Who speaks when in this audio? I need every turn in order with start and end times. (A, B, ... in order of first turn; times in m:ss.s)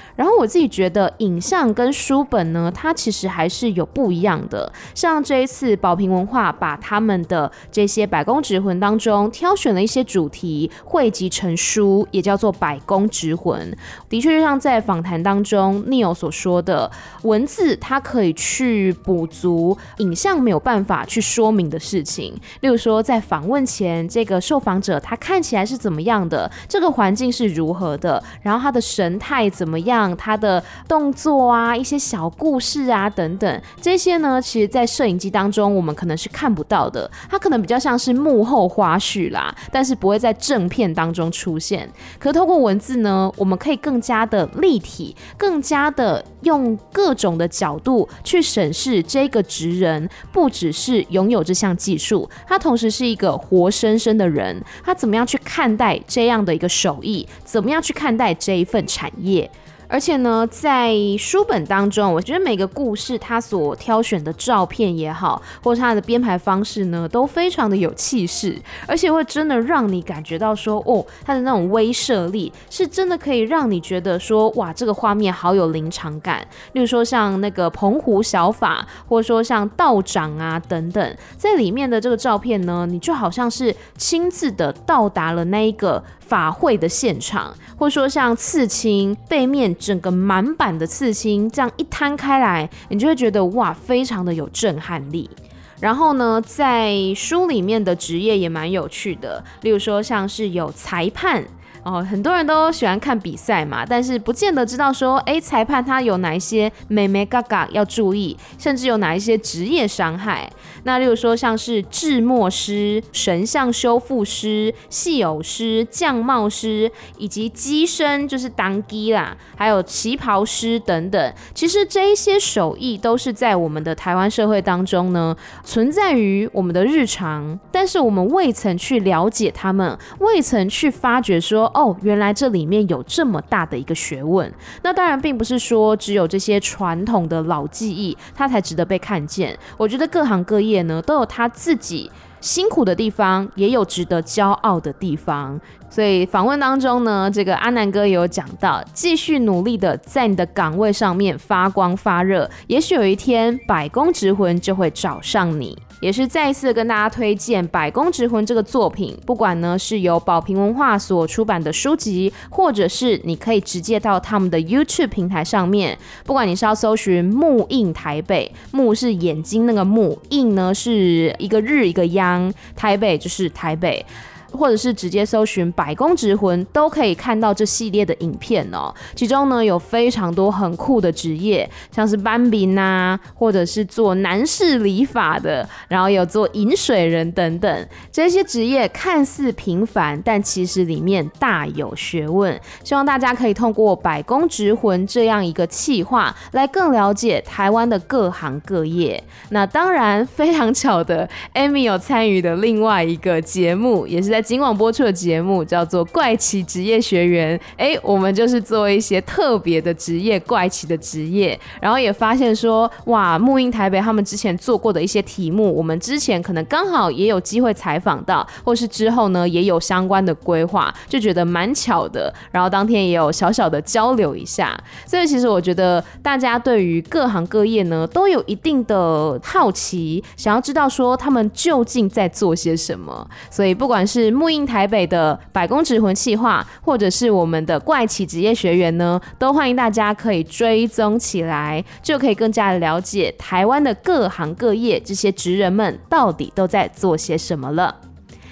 0:00.2-4:08.0 A